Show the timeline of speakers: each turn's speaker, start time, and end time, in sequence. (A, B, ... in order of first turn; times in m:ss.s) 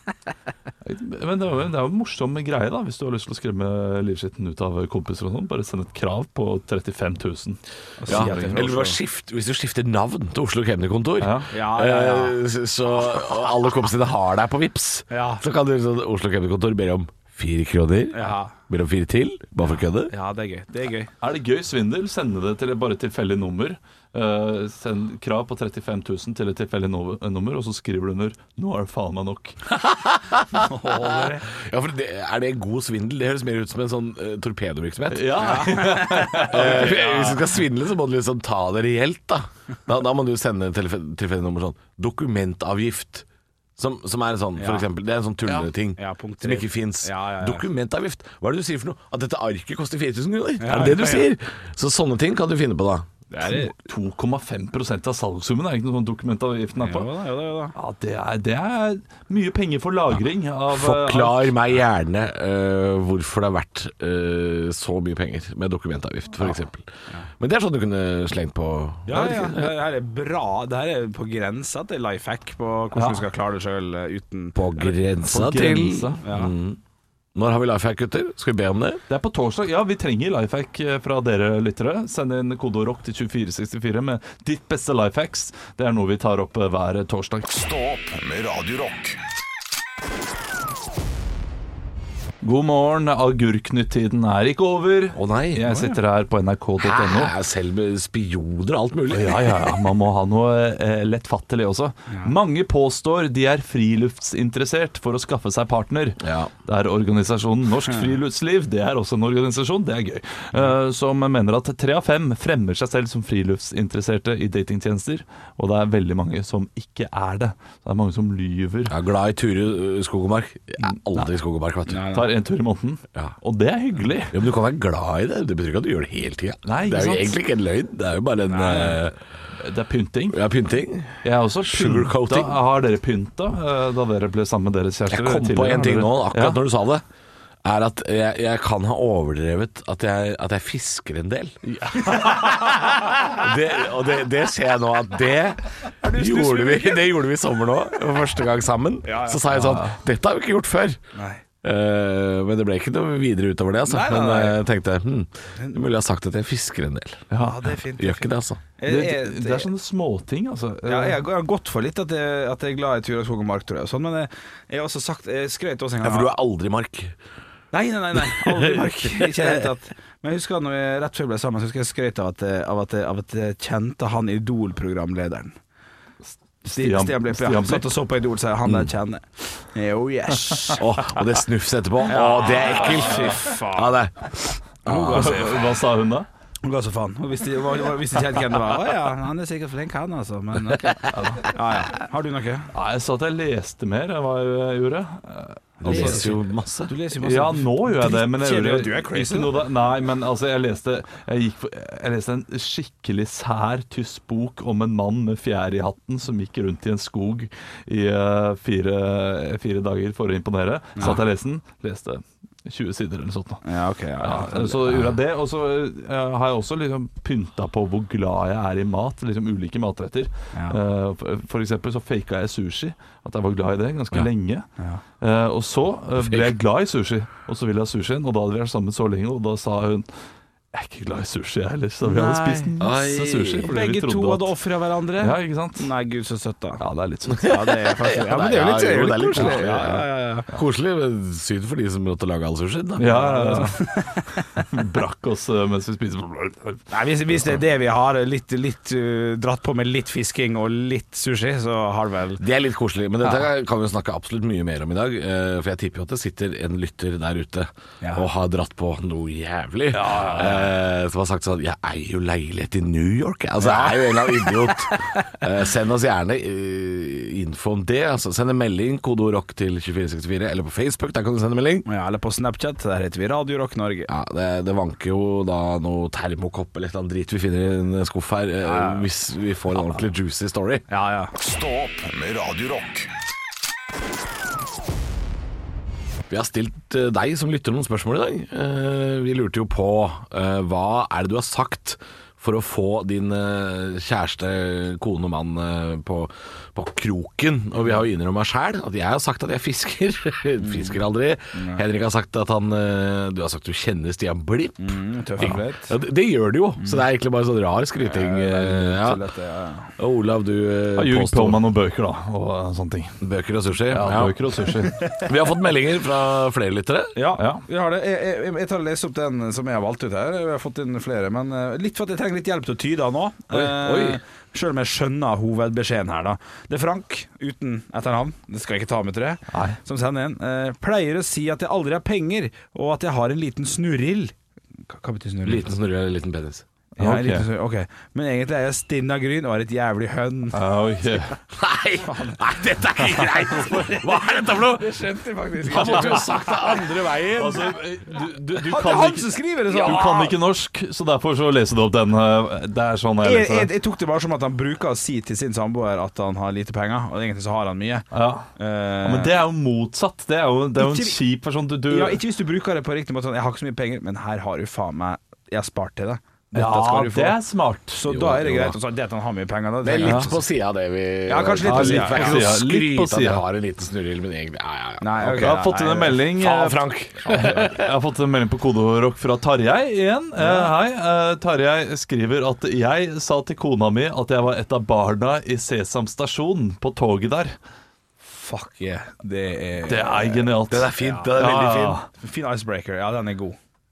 0:00.8-0:08.3 A
0:08.0-0:09.0 B
0:08.1-0:20.1 C
0:11.2-0:11.5 A
0:11.5-0:12.4 B
0:15.1-0:15.4 B
0:18.1-0:18.5 B
0:20.1-0:21.1 B
0:21.2-0:29.6 A
0:29.7-0:35.8 C
0:30.6-0:31.4 B
0:35.1-0:37.4 A
0:35.4-0:37.3 B
0:36.5-0:43.2 C
0:43.8-0:53.1 C
0:44.6-0:44.8 B
0:46.0-0:47.6 B
0:50.6-0:51.3 B
0:53.3-0:53.7 B
0:53.4-0:57.1 A
0:56.8-0:57.7 B
0:57.7-1:01.6 A
1:00.7-1:09.7 C
1:09.0-1:14.9 B
1:12.9-1:13.2 A
1:14.5-1:16.8 C
1:15.2-1:16.2 A
1:16.2-1:16.5 B
1:17.3-1:19.0 C
1:19.1-1:27.4 A
1:27.4-1:29.2 D
1:32.4-1:37.3 A
1:35.1-1:35.7 C
1:35.7-1:36.0 B
1:36.8-1:39.6 C
1:39.1-1:58.9 A
1:46.2-1:46.5 C
1:58.9-2:02.1 C
2:00.8-2:01.3 A
2:01.9-2:02.3 B
2:02.1-2:04.4 A
2:04.3-2:09.2 C
2:06.6-2:07.4 A
2:08.5-2:09.0 B
2:09.6-2:10.4 A
2:10.3-2:12.6 C
2:11.2-2:16.6 A
2:15.1-2:17.0 C
2:17.6-2:31.0 C
2:21.9-2:22.7 B
2:26.0-2:27.1 B
2:29.0-2:29.4 B
2:29.5-2:29.9 A
2:31.1-2:31.4 B
2:31.6-2:37.3 C
2:33.9-2:34.6 B
2:35.6-2:35.8 B
2:37.3-2:37.7 A
2:37.4-2:39.7 B
2:38.0-2:38.6 C
2:38.8-2:41.2 A
2:40.8-2:46.3 B
2:46.0-2:47.2 C
2:47.7-2:55.6 B
2:48.3-2:49.6 C
2:56.6-2:57.9 A
2:56.6-3:00.8 B
2:58.6-2:58.9 C
3:00.8-3:05.5 C
3:02.1-3:03.9 B
3:04.8-3:05.7 B
3:05.1-3:06.3 A
3:06.6-3:12.7 B
3:11.1-3:11.5 A
3:12.7-3:16.3 A
3:15.8-3:16.9 C
3:15.8-3:19.6 B
3:17.2-3:33.6 A
3:33.6-3:35.0 B
3:34.2-3:44.7 A
3:45.2-3:50.1 A
3:46.2-3:46.5 C
3:50.7-3:54.5 A
3:52.0-3:52.7 B
3:52.8-3:53.7 C
3:53.6-3:56.8 B
3:55.2-3:55.9 A
3:56.8-3:57.5 A
3:57.3-4:03.3 C
3:57.4-4:00.5 B
3:59.4-3:59.6 A
4:03.0-4:06.8 A
4:03.1-4:04.6 B
4:06.9-4:12.4 B
4:12.4-4:31.8 C
4:18.0-4:18.3 B
4:19.9-4:20.7 A
4:23.6-4:25.3 B
4:31.8-4:34.1 B
4:34.1-4:40.8 C
4:38.6-4:39.1 B
4:40.9-4:41.3 B
4:41.4-4:43.1 D
4:46.3-5:09.2 C
5:00.6-5:01.0 B
5:01.5-5:01.8 B
5:04.8-5:05.9 B
5:08.0-5:09.9 B
5:10.0-5:11.6 C
5:11.0-5:13.2 A
5:13.2-5:14.4 C
5:13.9-5:15.0 A
5:15.0-5:15.3 B
5:15.0-5:17.2 C
5:17.1-5:34.3 B
5:17.4-5:17.6 A
5:23.5-5:24.2 C
5:29.5-5:29.8 A
5:34.9-5:35.7 B
5:35.4-5:36.6 C
5:37.0-5:37.5 A
5:37.0-5:40.7 B
5:40.5-5:41.3 A
5:41.5-5:45.1 C
5:42.0-5:42.4 B
5:43.5-5:47.2 B
5:45.6-5:47.8 C
5:45.7-5:46.3 A
5:47.3-5:53.7 A
5:48.6-5:50.3 B
5:48.7-5:49.1 C
5:49.7-5:50.1 C
5:53.2-5:59.4 B
5:58.1-5:58.5 A
5:59.0-6:02.2 A
6:00.8-6:01.2 B
6:01.9-6:07.4 B
6:06.5-6:08.0 A
6:07.9-6:10.4 B
6:08.1-6:08.8 C
6:09.8-6:15.6 C
6:10.0-6:10.3 A
6:11.2-6:12.4 B
6:11.6-6:13.4 A
6:15.0-6:16.3 B
6:15.2-6:27.6 A
6:16.2-6:17.9 C
6:20.4-6:20.7 B
6:28.2-6:31.4 B
6:29.8-6:32.1 A
6:30.7-6:32.0 C
6:32.2-6:33.6 B